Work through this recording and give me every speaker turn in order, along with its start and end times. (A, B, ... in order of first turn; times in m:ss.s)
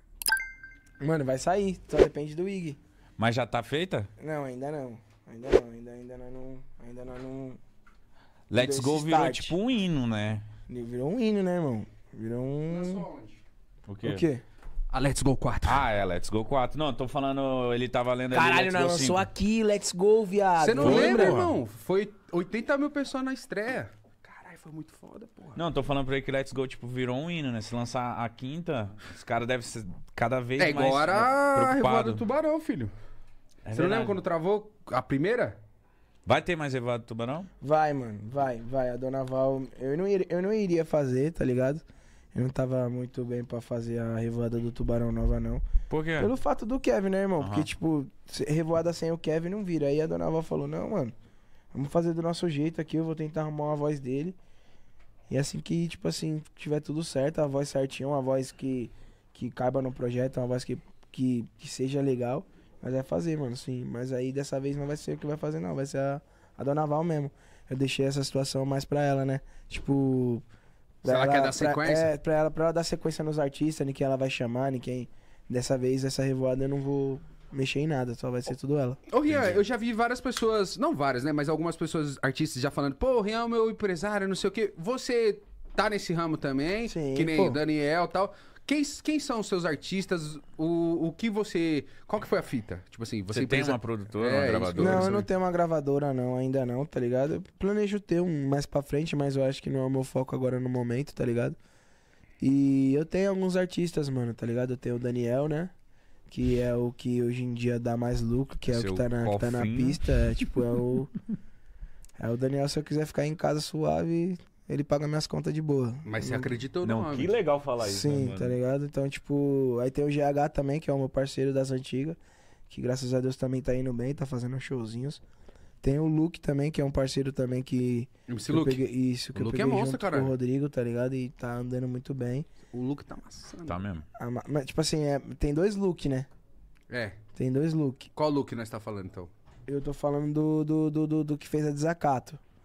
0:01.0-0:02.8 A
0:03.2-0:04.1 B
0:04.2-0:07.6 A
0:08.5-0:10.4 B
0:08.5-0:09.5 A
0:10.7-0:13.0 A
0:12.7-0:13.4 C
0:13.9-0:14.2 B
0:14.0-0:14.4 A
0:14.9-0:15.8 C
0:15.6-0:19.3 B
0:18.3-0:21.4 A
0:20.6-0:25.6 C
0:20.8-0:21.5 B
0:25.6-0:32.2 B
0:30.6-0:32.9 C
0:33.6-0:34.2 B
0:33.7-0:35.6 C
0:36.2-0:37.5 B
0:37.6-0:45.6 A
0:45.9-0:46.3 B
0:46.2-0:51.1 A
0:47.4-0:47.7 B
0:51.7-0:54.4 A
0:55.3-1:10.4 A
1:11.0-1:19.0 A
1:11.0-1:12.1 C
1:19.1-1:35.3 C
1:19.3-1:19.6 B
1:26.9-1:27.6 A
1:33.3-1:35.2 B
1:34.8-1:41.6 A
1:42.4-1:45.7 A
1:46.3-1:51.1 A
1:48.7-1:49.1 C
1:49.2-1:50.5 B
1:52.2-1:56.5 A
1:56.0-1:57.3 C
1:56.8-1:58.6 B
1:57.8-2:02.2 A
2:02.7-2:05.2 A
2:05.8-2:12.5 A
2:08.3-2:10.3 C
2:12.7-2:13.8 C
2:13.6-2:14.0 B
2:14.2-2:16.3 A
2:16.9-2:17.2 C
2:17.3-2:18.1 A
2:18.1-2:19.3 C
2:19.7-2:22.4 A